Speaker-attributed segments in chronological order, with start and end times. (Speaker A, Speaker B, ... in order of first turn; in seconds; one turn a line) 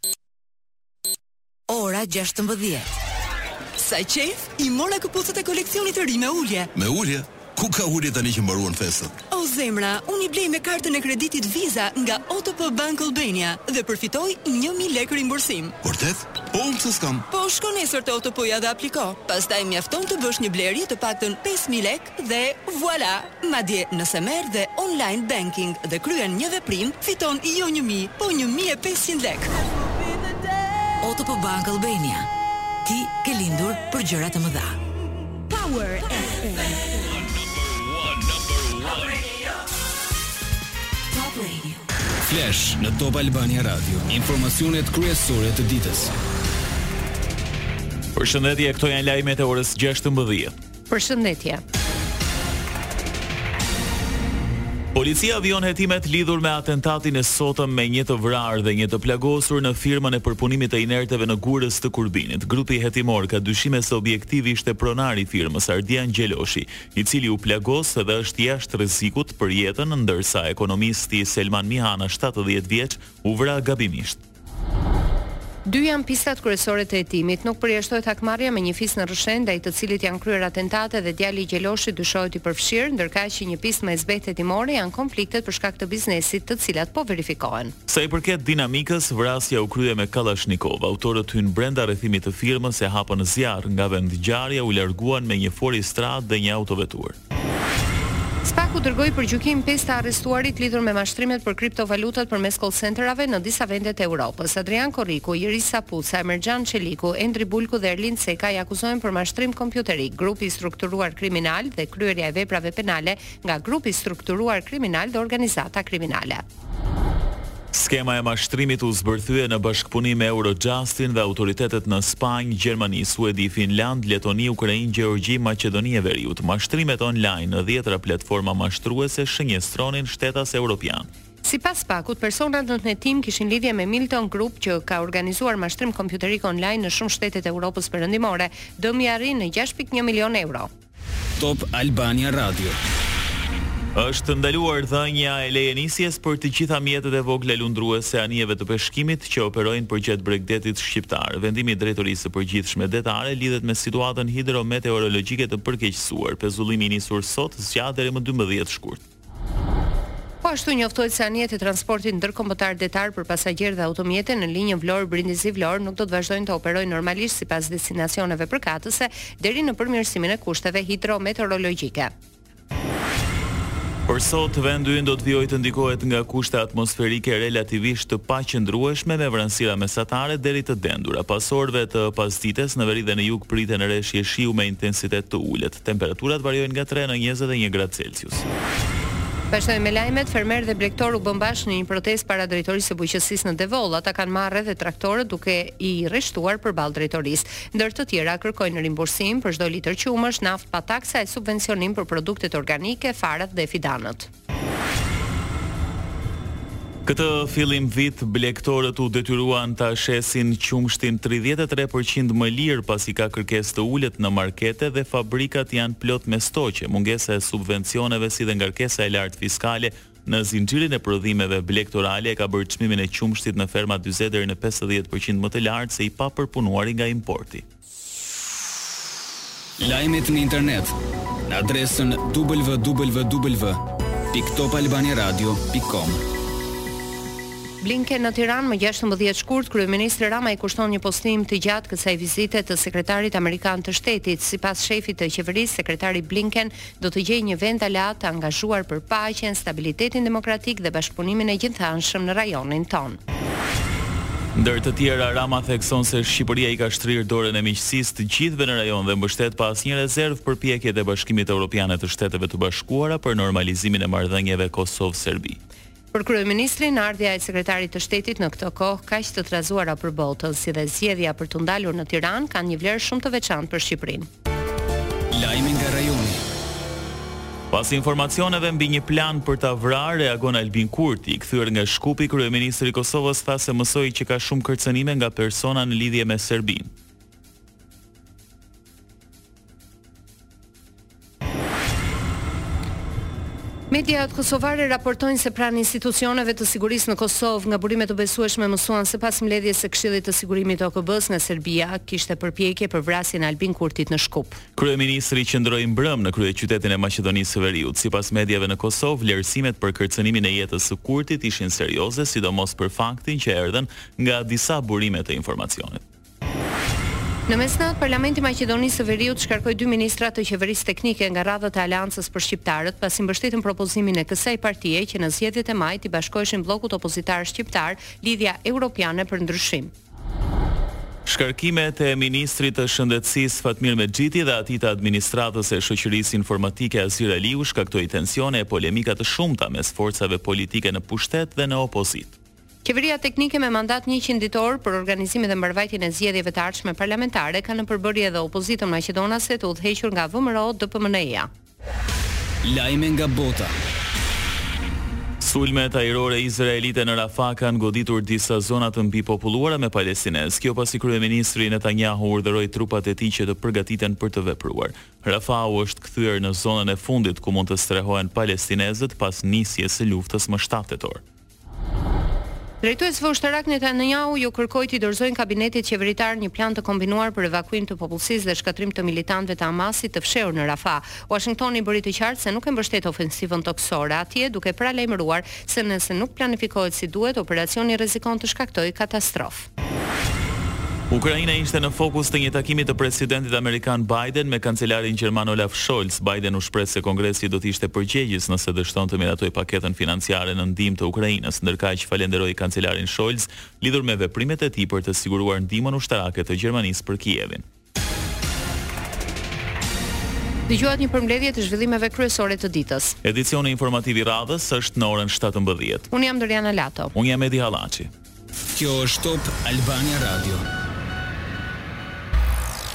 Speaker A: 1.7-2.9
Speaker B: 3.8-6.7
Speaker C: 6.8-9.2
Speaker B: 9.3-15.8
Speaker C: 15.8-17.2
Speaker B: 17.3-29.5
Speaker A: 31.0-32.3
Speaker A: 32.9-34.8
Speaker A: 35.5-36.6
Speaker A: 41.1-41.8
Speaker D: 42.2-46.1
Speaker E: 48.1-50.5
Speaker F: 50.9-51.6
Speaker E: 54.9-74.2
Speaker F: 75.6-87.7
Speaker E: 87.9-97.2
Speaker F: 98.4-116.4
Speaker E: 117.7-131.1
Speaker F: 131.4-140.7
Speaker D: 141.4-142.8
Speaker E: 143.9-159.0
Speaker F: 160.4-172.1
Speaker E: 174.1-188.4
Speaker F: 189.5-204.3
Speaker E: 207.1-227.6
Speaker D: 229.8-230.9
Speaker D: 231.5-236.2
Speaker F: 237.8-253.2
Speaker E: 254.6-265.6
Speaker F: 266.1-274.3
Speaker D: 275.3-276.4
Speaker E: 277.7-286.9
Speaker F: 293.9-304.6
Speaker E: 304.8-316.0
Speaker F: 317.5-329.9
Speaker E: 331.3-342.4
Speaker F: 342.8-351.5
Speaker D: 352.6-353.8
Speaker E: 355.4-371.2
Speaker F: 372.8-389.7
Speaker E: 391.1-407.6
Speaker F: 410.7-413.1
Speaker E: 413.2-416.1
Speaker F: 416.1-417.1
Speaker E: 417.1-418.1
Speaker D: 418.7-420.6